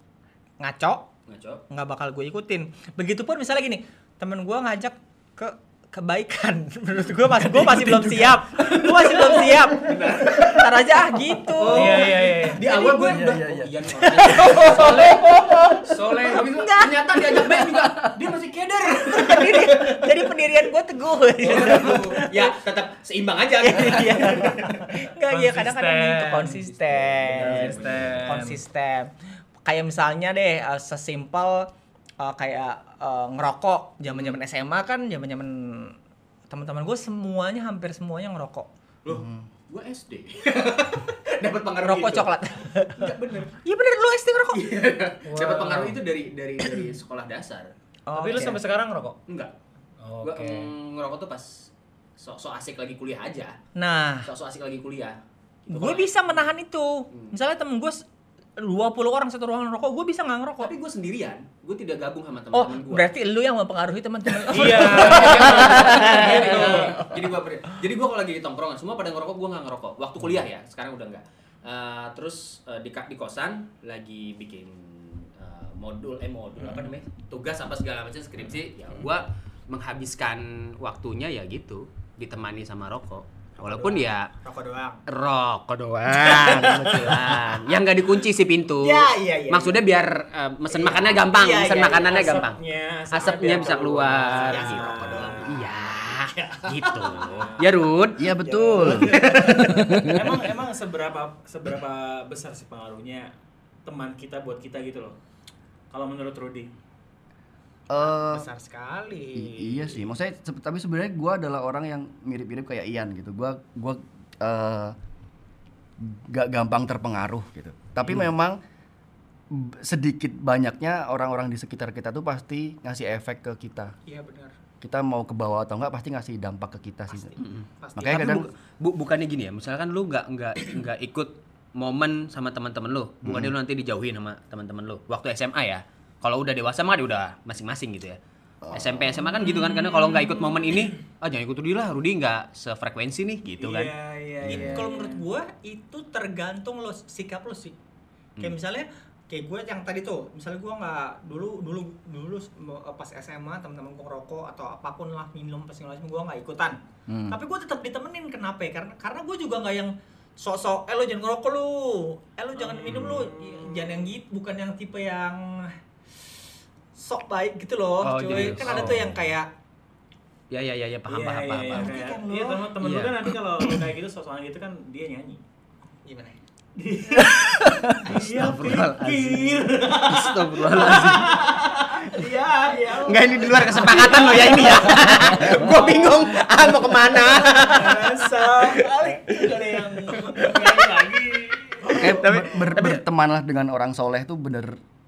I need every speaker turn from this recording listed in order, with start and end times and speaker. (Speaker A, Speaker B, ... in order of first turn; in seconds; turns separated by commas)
Speaker A: 0.6-1.1, Speaker B: 1.3-1.6, Speaker A: 1.7-12.1, Speaker B: 8.6-10.7, Speaker B: 11.5-20.2, Speaker C: 11.7-12.7, Speaker A: 12.6-13.3, Speaker D: 13.1-13.8, Speaker A: 13.9-17.9, Speaker A: 18.9-22.6, Speaker B: 21.4-24.8, Speaker A: 23.6-29.1, Speaker C: 25.2-26.6, Speaker B: 26.6-28.4, Speaker C: 27.4-28.6, Speaker A: 29.6-31.7, Speaker A: 32.2-36.0, Speaker B: 34.1-34.4, Speaker A: 36.5-38.7, Speaker B: 39.0-43.5, Speaker A: 41.8-43.1, Speaker A: 43.6-44.7, Speaker B: 44.5-47.7, Speaker A: 45.3-45.9, Speaker C: 45.4-45.9, Speaker A: 48.1-48.6, Speaker C: 48.1-49.2, Speaker B: 49.3-49.5, Speaker C: 50.0-50.7, Speaker B: 50.2-53.6, Speaker A: 53.8-54.3, Speaker B: 54.3-56.1, Speaker A: 55.7-58.0, Speaker B: 57.1-57.4, Speaker A: 58.6-60.7, Speaker B: 60.6-63.1, Speaker A: 62.5-67.4, Speaker C: 64.5-67.1, Speaker B: 64.5-84.3, Speaker C: 76.6-76.9, Speaker A: 83.6-85.0, Speaker B: 85.1-99.6, Speaker C: 86.7-87.2, Speaker A: 88.8-89.9, Speaker A: 90.7-92.4, Speaker C: 91.8-97.9, Speaker A: 94.4-95.5, Speaker D: 98.2-100.4, Speaker C: 98.7-103.3, Speaker C: 103.8-105.2, Speaker C: 105.9-106.7, Speaker D: 107.9-108.5, Speaker A: 108.0-110.1, Speaker D: 109.3-115.0, Speaker D: 116.0-118.6, Speaker D: 119.5-123.9, Speaker A: 124.1-124.5, Speaker D: 124.8-127.4, Speaker A: 127.1-128.4, Speaker B: 127.4-138.2, Speaker D: 128.0-128.5, Speaker D: 133.2-133.5, Speaker D: 138.6-139.1, Speaker B: 138.7-143.9, Speaker C: 139.5-140.3, Speaker C: 143.6-145.2, Speaker D: 144.4-144.9, Speaker A: 144.5-147.8, Speaker A: 148.4-165.8, Speaker D: 157.1-157.4, Speaker C: 162.6-163.5, Speaker D: 162.9-163.3, Speaker A: 166.9-169.5, Speaker B: 168.0-169.2, Speaker C: 168.3-169.0, Speaker B: 170.5-172.0, Speaker C: 171.1-175.4, Speaker A: 171.7-172.7, Speaker B: 172.8-173.8, Speaker A: 176.1-176.4, Speaker C: 176.8-186.7, Speaker A: 177.0-177.4, Speaker B: 177.4-181.4, Speaker A: 181.0-191.2, Speaker B: 182.9-188.3, Speaker C: 187.2-192.4, Speaker B: 191.8-193.0, Speaker D: 191.9-194.8